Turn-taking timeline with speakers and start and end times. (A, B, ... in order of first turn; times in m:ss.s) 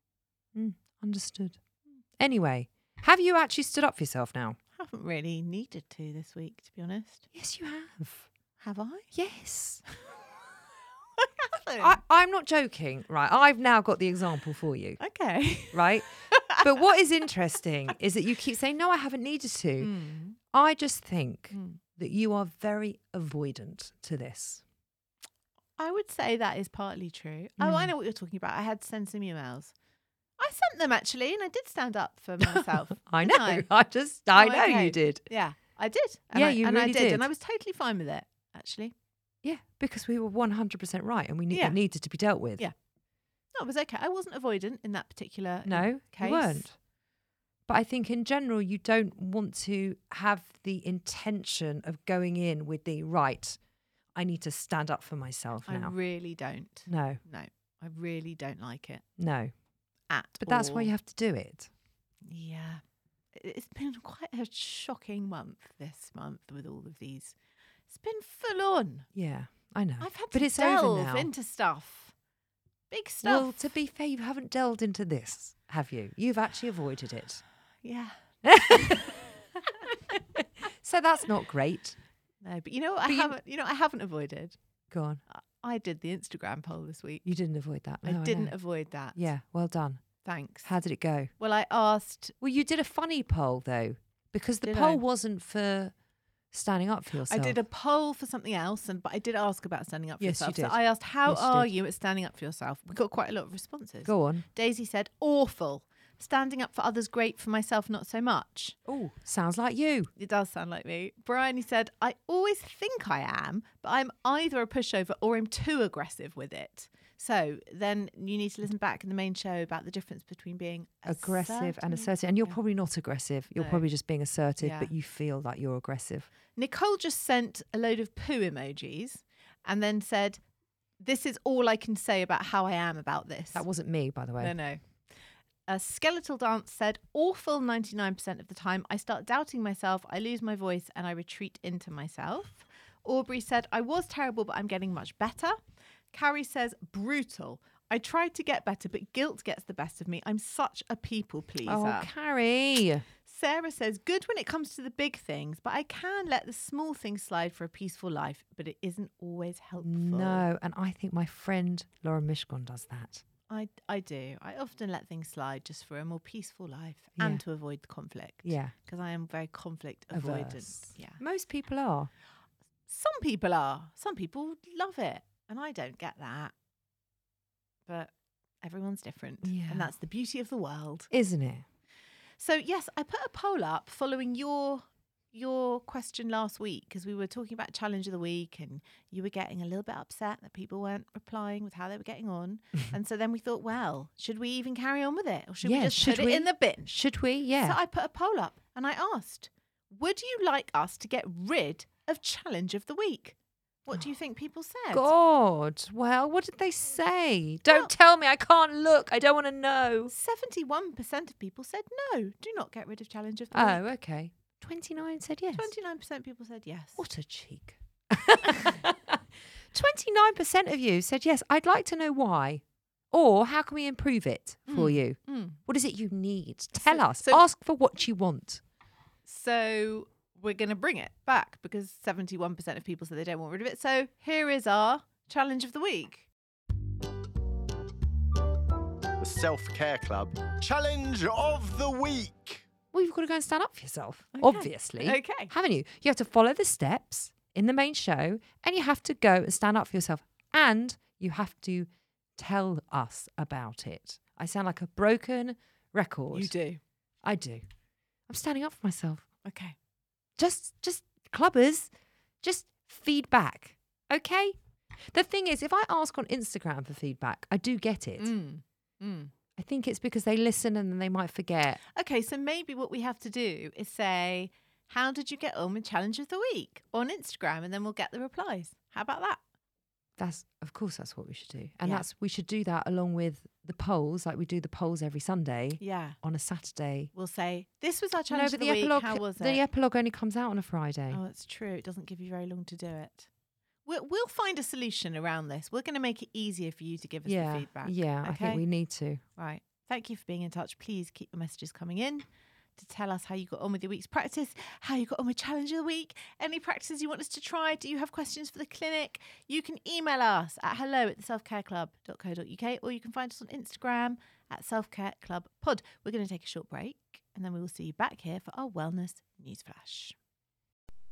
0:00.5-0:01.6 A
0:02.2-0:04.6 A
0:04.8-0:07.2 B
0:07.3-0:08.2 A
0:08.6-0:09.1 B
0:09.1-0:09.8 A
0:11.2-0:12.0 B
0:11.8-0:15.0 A
0:15.0-0:16.6 B
0:15.7-0:19.9 A
0:19.8-0:20.4 B
0:20.5-0:24.6 A
0:21.5-0:21.8 B
0:25.8-0:29.7 B
0:27.6-0:27.9 A
0:30.4-0:33.6 B
0:32.4-0:35.2 A
0:34.3-0:38.9 B
0:36.3-0:37.3 A
0:39.4-0:42.7 A
0:41.5-0:41.8 B
0:43.5-0:46.6 B
0:45.6-0:46.8 A
0:47.7-0:53.6 A
0:54.1-0:55.9 A
0:55.6-0:59.0 B
0:56.9-0:57.2 A
0:59.2-0:59.5 A
1:00.1-1:00.9 B
1:00.4-1:01.7 A
1:02.2-1:02.8 B
1:03.3-1:07.4 B
1:07.9-1:09.1 B
1:09.1-1:11.3 A
1:10.0-1:12.1 B
1:12.9-1:13.6 B
1:13.2-1:17.4 A
1:17.8-1:19.2 B
1:18.4-1:19.2 A
1:19.9-1:22.0 A
1:22.4-1:24.6 B
1:23.0-1:23.4 A
1:24.9-1:25.2 A
1:25.3-1:27.2 B
1:27.2-1:28.5 A
1:28.0-1:29.2 B
1:29.1-1:30.0 A
1:30.2-1:30.7 B
1:30.6-1:31.3 A
1:31.4-1:32.3 B
1:32.4-1:35.9 A
1:34.6-1:35.0 B
1:36.5-1:37.6 A
1:37.3-1:48.8 B
1:40.2-1:41.7 A
1:44.0-1:44.5 A
1:48.9-1:50.1 A
1:50.2-2:02.6 B
2:01.0-2:06.3 A
2:03.5-2:03.8 B
2:04.6-2:04.9 B
2:06.6-2:10.4 B
2:11.0-2:13.6 B
2:13.5-2:14.5 A
2:14.4-2:14.8 B
2:15.7-2:25.6 B
2:26.1-2:32.1 B
2:31.6-2:33.0 A
2:33.2-2:40.5 B
2:39.8-2:43.2 A
2:43.5-2:51.2 B
2:48.4-2:48.7 A
2:50.1-2:52.1 A
2:52.9-2:56.5 B
2:58.6-3:01.1 B
2:59.4-2:59.9 A
3:01.1-3:01.6 A
3:02.4-3:16.9 B
3:15.6-3:17.8 A
3:17.6-3:25.1 B
3:24.9-3:30.1 A
3:30.1-3:33.8 B
3:33.5-3:35.7 A
3:35.5-3:37.0 B
3:37.0-3:39.2 A
3:39.7-3:48.6 A
3:44.7-3:45.6 B
3:46.8-3:47.4 B
3:49.2-3:56.2 B
3:59.2-4:02.6 C
4:02.9-4:16.5 A
4:04.4-4:05.5 B
4:16.3-4:16.8 B
4:17.2-4:17.6 A
4:18.3-4:19.2 A
4:19.4-4:19.7 B
4:20.4-4:21.9 A
4:22.4-4:24.6 A
4:25.1-4:28.3 A
4:28.2-4:29.3 B
4:29.6-4:31.8 A
4:31.9-4:39.4 B
4:40.2-4:47.1 A
4:45.8-4:46.2 B
4:47.1-4:49.6 B
4:48.3-4:51.2 A
4:51.1-4:53.3 B
4:53.8-4:58.6 B
4:57.2-4:59.2 A
4:59.4-5:02.2 B
5:02.8-5:20.1 B